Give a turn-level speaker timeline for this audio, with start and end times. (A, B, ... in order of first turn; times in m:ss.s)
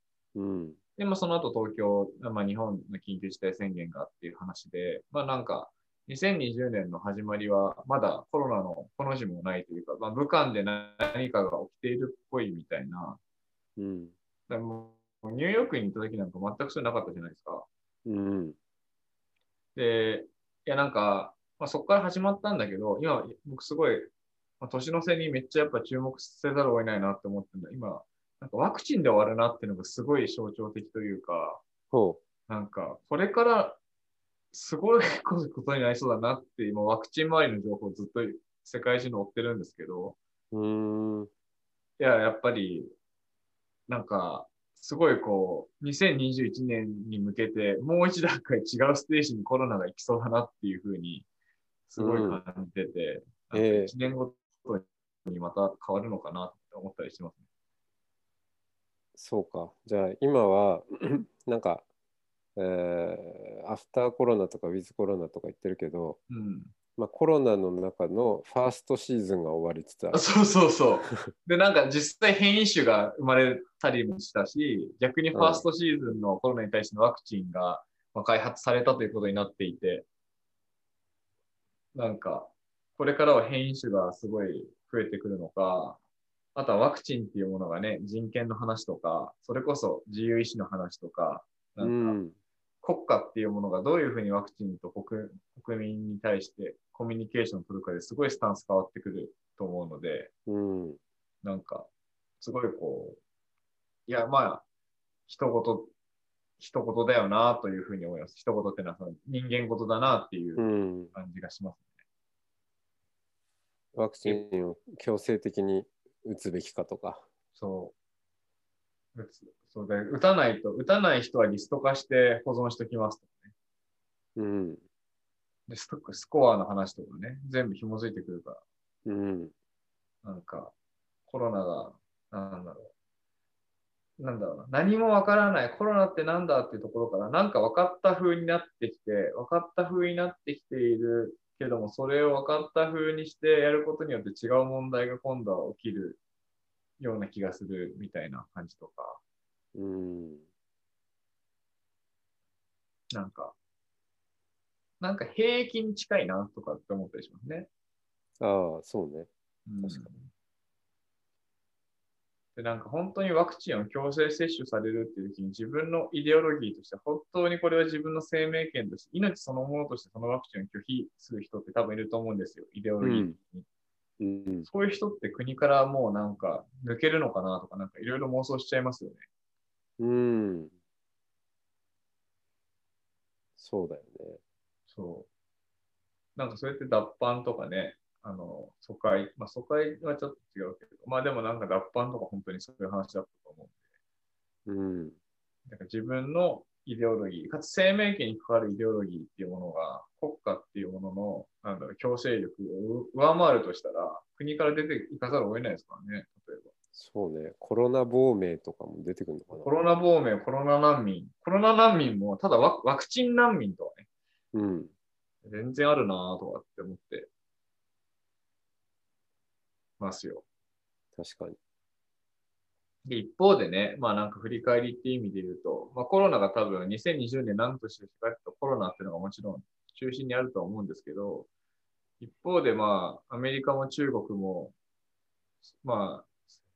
0:00.3-0:00.8 A
0:01.0-0:13.2 B
0:13.8-0:14.1 A
0:14.5-0:17.7 B
0:18.0-0:18.6 A
0:19.8-0:31.6 B
0:31.9-0:32.2 A
0:32.5-0:33.8 B
0:34.5-0:40.2 B
0:40.5-0:41.3 A
0:42.0-0:42.9 B
0:43.9-0:51.2 B
0:51.9-0:57.4 B
0:52.0-0:52.4 A
0:53.5-0:53.9 A
0:59.2-1:01.8 A
1:02.6-1:06.2 A
1:06.3-1:06.7 B
1:07.0-1:10.3 A
1:10.1-1:20.0 B
1:15.3-1:15.6 A
1:21.9-1:26.0 B
1:26.5-1:32.2 B
1:31.8-1:32.4 A
1:32.8-1:40.3 B
1:40.5-1:41.0 A
1:41.4-1:41.9 B
1:42.4-1:43.2 B
1:44.1-1:44.6 B
1:45.3-1:45.9 B
1:46.6-1:51.8 B
1:50.6-1:51.1 A
1:53.9-1:57.2 A
1:57.6-1:57.9 B
1:59.1-2:03.5 B
2:04.4-2:04.8 A
2:05.7-2:08.6 B
2:09.0-2:09.5 A
2:10.2-2:10.7 B
2:11.3-2:12.9 B
2:14.2-2:26.2 B
2:27.0-2:29.2 B
2:29.7-2:30.4 A
2:33.1-2:33.6 B
2:35.0-2:37.7 B
2:38.4-2:39.3 A
2:39.7-2:40.3 B
2:39.8-2:40.1 A
2:42.6-2:53.6 B
2:53.0-2:53.4 A
2:54.2-2:54.7 A
2:54.6-2:59.2 B
3:00.0-3:00.7 A
3:03.6-3:04.4 A
3:04.9-3:05.3 B
3:06.4-3:13.7 B
3:14.6-3:15.2 A
3:15.6-3:26.7 B
3:26.9-3:29.7 A
3:29.5-3:34.1 B
3:34.5-3:34.9 A
3:35.4-3:37.3 B
3:40.0-3:40.4 B
3:41.2-3:41.6 A
3:43.0-3:51.5 B
3:52.2-3:54.7 B
3:55.8-3:56.3 B